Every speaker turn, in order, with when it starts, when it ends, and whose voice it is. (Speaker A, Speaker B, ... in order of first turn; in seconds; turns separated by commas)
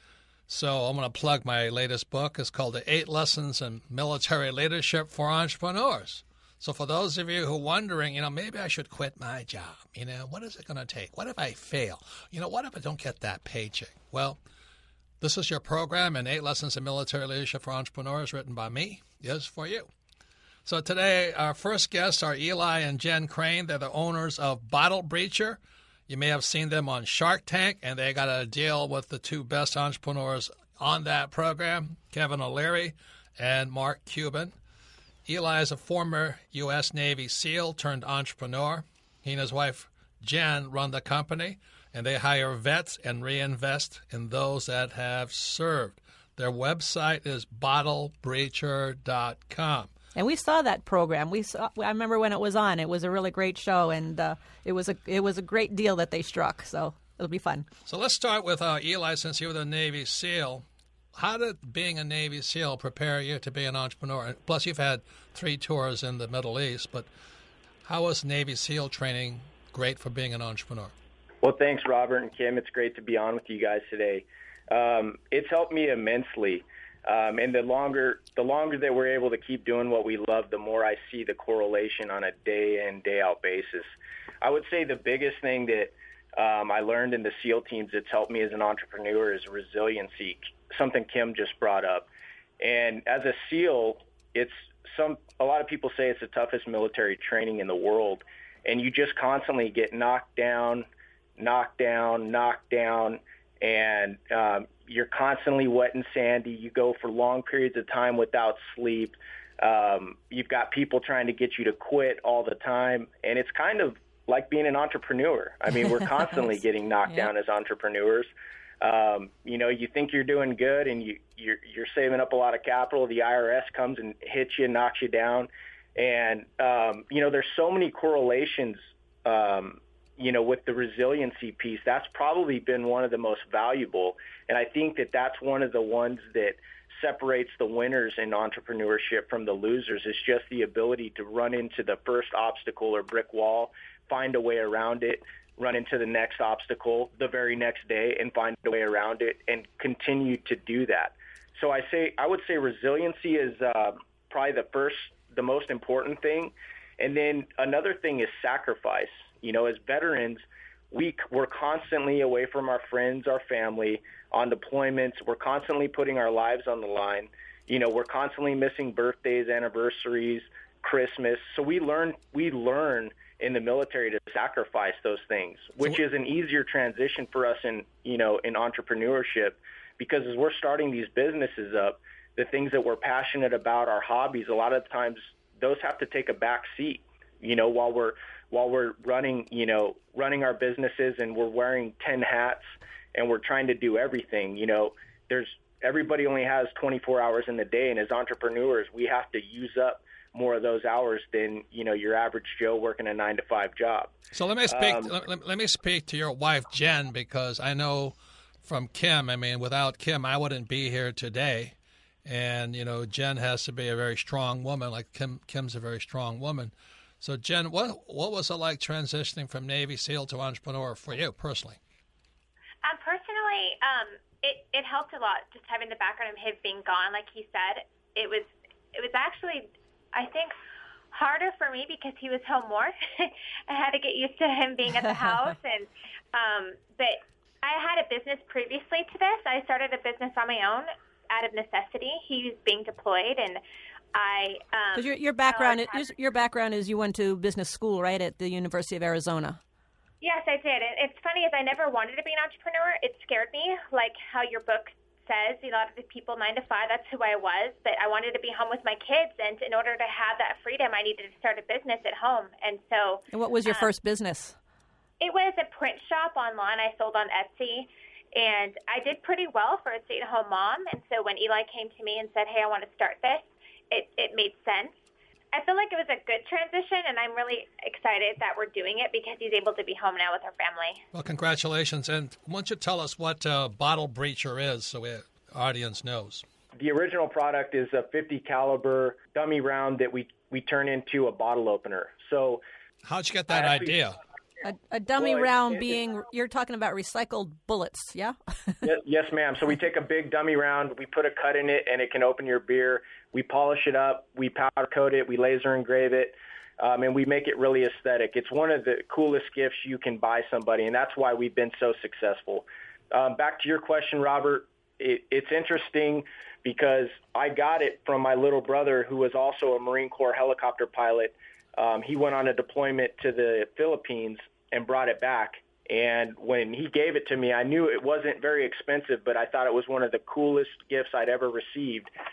Speaker A: 0.5-14.4, Speaker A: 15.2-19.9, Speaker A: 20.6-34.5, Speaker A: 35.3-49.9, Speaker B: 50.1-57.7, Speaker A: 57.9-67.1, Speaker A: 67.8-70.9, Speaker C: 71.4-83.9, Speaker C: 84.4-92.1, Speaker C: 92.6-100.8, Speaker C: 101.4-118.3, Speaker C: 118.8-204.1, Speaker A: 204.3-221.8, Speaker C: 204.7-205.1, Speaker D: 222.8-230.6, Speaker D: 231.1-243.6, Speaker D: 244.1-246.0, Speaker B: 244.9-249.6, Speaker D: 250.2-263.9, Speaker B: 263.3-264.6, Speaker D: 265.2-274.9, Speaker D: 275.5-281.0, Speaker A: 281.1-286.4, Speaker C: 286.8-292.6, Speaker A: 293.0-294.2, Speaker C: 293.5-293.9, Speaker B: 294.6-298.7, Speaker C: 295.2-295.4, Speaker C: 298.8-332.1